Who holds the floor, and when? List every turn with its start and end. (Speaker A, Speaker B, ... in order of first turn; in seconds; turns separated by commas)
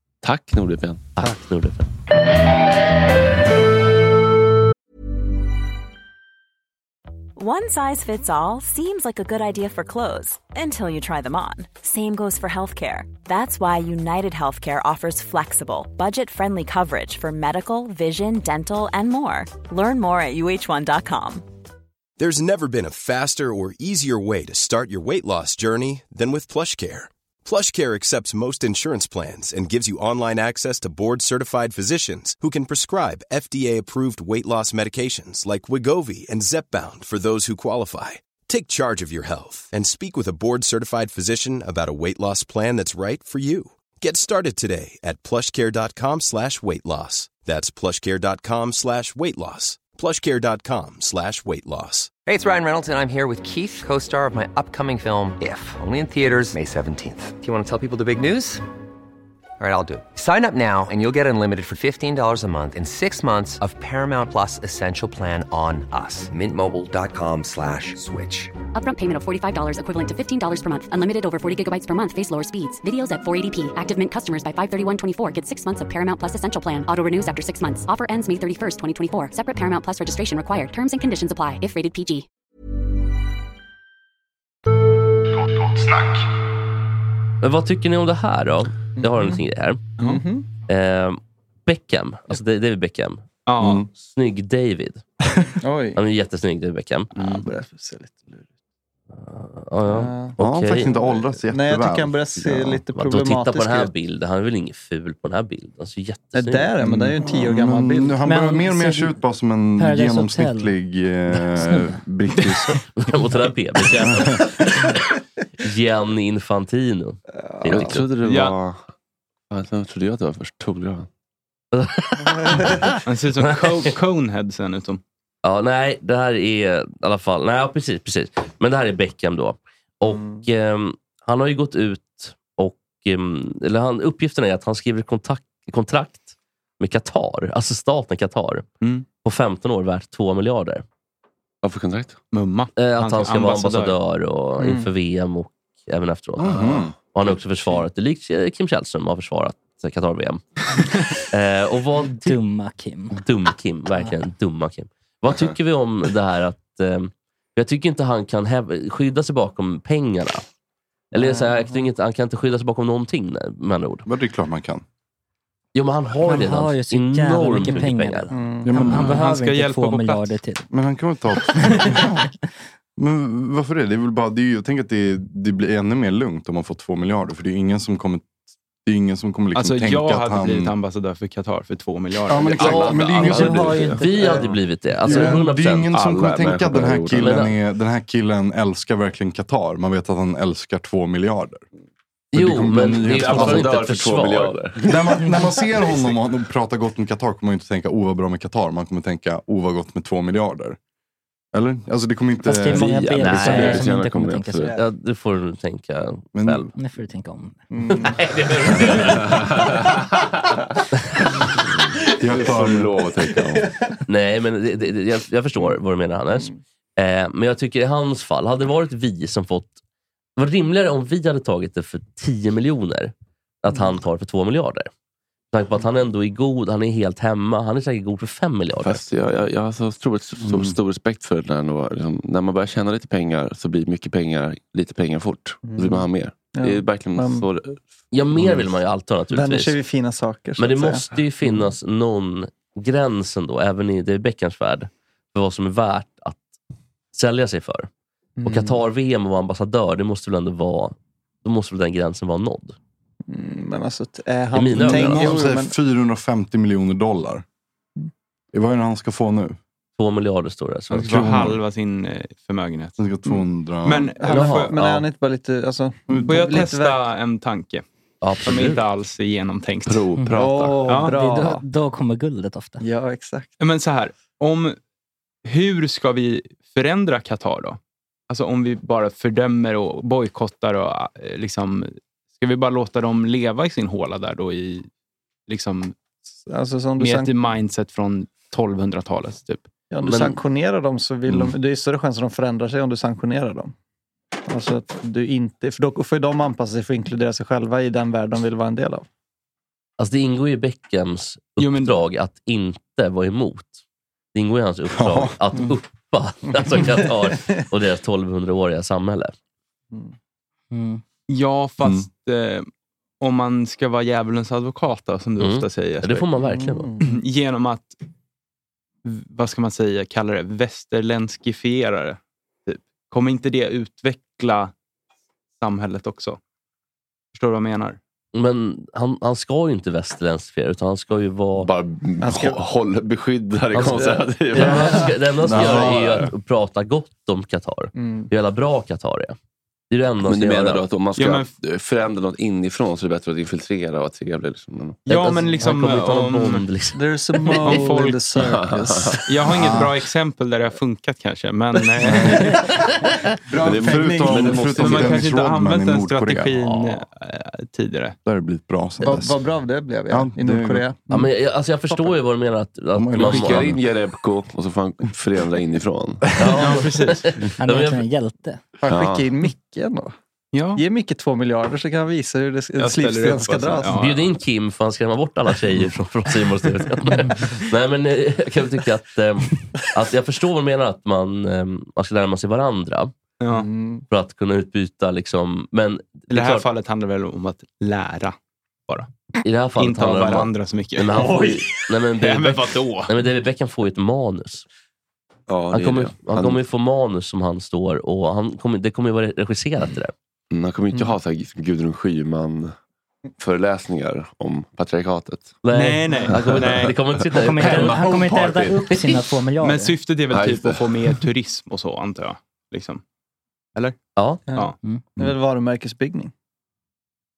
Speaker A: 0.2-1.1, Speaker B: 1.2-1.9, Speaker C: 7.4-21.5, Speaker D: 22.2-52.1, Speaker E: 52.2-58.6, Speaker E: 59.6-68.5, Speaker F: 68.7-82.3, Speaker B: 87.4-89.8, Speaker G: 89.0-89.4, Speaker G: 90.0-90.5, Speaker B: 90.7-93.3, Speaker H: 93.5-93.9, Speaker I: 93.6-93.9, Speaker B: 93.9-95.0, Speaker G: 95.6-96.0, Speaker B: 96.0-97.1, Speaker H: 97.2-97.5, Speaker G: 97.2-98.5, Speaker B: 99.2-100.9, Speaker G: 99.9-103.9, Speaker I: 100.4-102.3, Speaker B: 102.4-106.7, Speaker G: 106.3-108.2, Speaker I: 106.8-112.8, Speaker J: 108.2-109.2, Speaker J: 109.8-110.8, Speaker J: 111.6-111.8, Speaker B: 113.0-115.1, Speaker I: 114.1-114.4, Speaker B: 115.6-118.0, Speaker G: 117.5-118.0, Speaker A: 117.7-118.8, Speaker H: 118.2-118.5, Speaker A: 119.5-121.1, Speaker B: 121.7-123.9, Speaker G: 122.3-122.8, Speaker H: 123.0-125.0, Speaker B: 125.4-138.7, Speaker G: 130.1-130.4, Speaker B: 139.2-140.8, Speaker A: 141.6-142.2, Speaker H: 142.3-144.0, Speaker B: 142.8-152.4, Speaker G: 144.6-144.9, Speaker I: 146.4-146.9, Speaker J: 152.2-153.2, Speaker B: 153.2-160.4, Speaker B: 161.1-164.1, Speaker G: 161.1-161.8, Speaker I: 164.1-164.8, Speaker B: 165.7-168.3, Speaker J: 166.2-170.7, Speaker G: 168.3-168.9, Speaker I: 168.7-169.2, Speaker H: 168.9-170.4, Speaker I: 170.7-172.3, Speaker I: 173.0-178.3, Speaker I: 178.9-180.7, Speaker H: 179.5-182.9, Speaker I: 182.3-184.0, Speaker A: 182.3-184.1, Speaker B: 182.6-185.9, Speaker J: 183.4-184.4, Speaker G: 184.2-184.4, Speaker I: 185.0-191.6, Speaker A: 185.9-187.4, Speaker B: 187.2-187.6, Speaker B: 192.3-194.6, Speaker I: 192.3-193.7, Speaker A: 192.8-195.1, Speaker I: 194.8-200.8, Speaker I: 201.5-203.8, Speaker J: 202.4-204.7, Speaker A: 202.7-204.8, Speaker B: 203.2-203.8, Speaker B: 204.7-206.7, Speaker I: 206.3-206.7, Speaker J: 206.8-207.6, Speaker G: 207.7-208.2, Speaker B: 208.1-209.4, Speaker I: 212.2-213.1, Speaker A: 212.3-213.7, Speaker G: 213.4-213.8, Speaker B: 214.1-219.7, Speaker B: 220.4-224.9, Speaker B: 225.5-229.0, Speaker A: 228.8-237.8, Speaker I: 230.4-230.8, Speaker G: 235.6-237.5, Speaker B: 238.1-239.8, Speaker G: 239.3-241.6, Speaker B: 240.6-246.4, Speaker B: 247.1-247.9, Speaker G: 248.4-248.8, Speaker B: 248.4-252.8, Speaker G: 253.3-255.7, Speaker B: 254.5-255.4, Speaker I: 254.8-257.4, Speaker I: 258.5-259.6, Speaker B: 260.0-261.2, Speaker I: 260.9-261.6, Speaker H: 260.9-263.0, Speaker I: 263.0-264.1, Speaker H: 263.8-264.8, Speaker G: 264.2-267.1, Speaker B: 264.3-265.1, Speaker I: 266.1-266.5, Speaker H: 266.2-267.8, Speaker B: 268.2-268.8, Speaker H: 268.4-270.1, Speaker A: 269.9-270.9, Speaker G: 270.3-271.6, Speaker H: 270.9-271.1, Speaker J: 271.0-272.8, Speaker G: 272.8-273.5, Speaker H: 273.6-274.8, Speaker H: 275.4-284.9, Speaker H: 285.5-285.9, Speaker G: 286.5-287.3, Speaker H: 287.0-289.7, Speaker G: 289.9-293.7, Speaker B: 290.0-290.4, Speaker G: 294.5-299.1, Speaker B: 300.0-303.8, Speaker H: 301.6-301.9, Speaker B: 304.3-309.3, Speaker I: 304.9-305.4, Speaker G: 306.7-307.4, Speaker J: 310.7-311.0, Speaker H: 311.3-312.7, Speaker I: 311.8-312.1, Speaker H: 313.2-316.3, Speaker B: 315.4-316.9, Speaker G: 316.4-317.0, Speaker H: 317.0-318.0, Speaker H: 319.0-324.7, Speaker H: 325.6-326.4, Speaker H: 327.3-328.0, Speaker B: 328.3-331.7, Speaker A: 331.6-336.2, Speaker G: 332.2-332.6, Speaker B: 333.7-339.4, Speaker G: 334.1-335.0, Speaker I: 335.5-336.3, Speaker G: 338.0-338.3, Speaker B: 339.9-340.8, Speaker A: 340.2-345.0, Speaker H: 341.2-341.5, Speaker H: 345.1-346.6, Speaker B: 345.1-347.7, Speaker G: 346.9-349.9, Speaker H: 347.6-348.2, Speaker A: 348.4-349.3, Speaker H: 349.3-352.7, Speaker I: 352.0-352.6, Speaker G: 353.5-355.1, Speaker A: 353.6-355.3, Speaker I: 353.6-356.8, Speaker H: 354.7-358.2, Speaker I: 358.3-359.4, Speaker G: 359.0-361.3, Speaker I: 360.1-360.9, Speaker B: 361.1-363.8, Speaker G: 361.9-362.1, Speaker I: 362.9-363.8, Speaker A: 363.2-366.3, Speaker B: 366.4-368.0, Speaker H: 366.5-367.4, Speaker J: 367.6-368.6, Speaker G: 368.8-370.1, Speaker A: 368.9-369.3, Speaker H: 370.5-370.8, Speaker G: 370.8-373.9, Speaker H: 372.8-374.3, Speaker B: 373.9-383.1, Speaker H: 383.4-383.7, Speaker G: 383.5-384.1, Speaker B: 384.1-386.7, Speaker H: 386.3-388.4, Speaker B: 389.4-394.6, Speaker H: 389.8-393.1, Speaker A: 395.5-396.6, Speaker B: 395.7-400.1, Speaker A: 400.5-402.7, Speaker A: 403.4-405.6, Speaker B: 405.6-408.2, Speaker H: 405.7-407.0, Speaker A: 406.3-406.9, Speaker J: 407.3-410.0, Speaker A: 407.6-408.8, Speaker H: 409.6-413.0, Speaker A: 410.3-411.1, Speaker B: 414.2-414.4, Speaker G: 414.5-416.3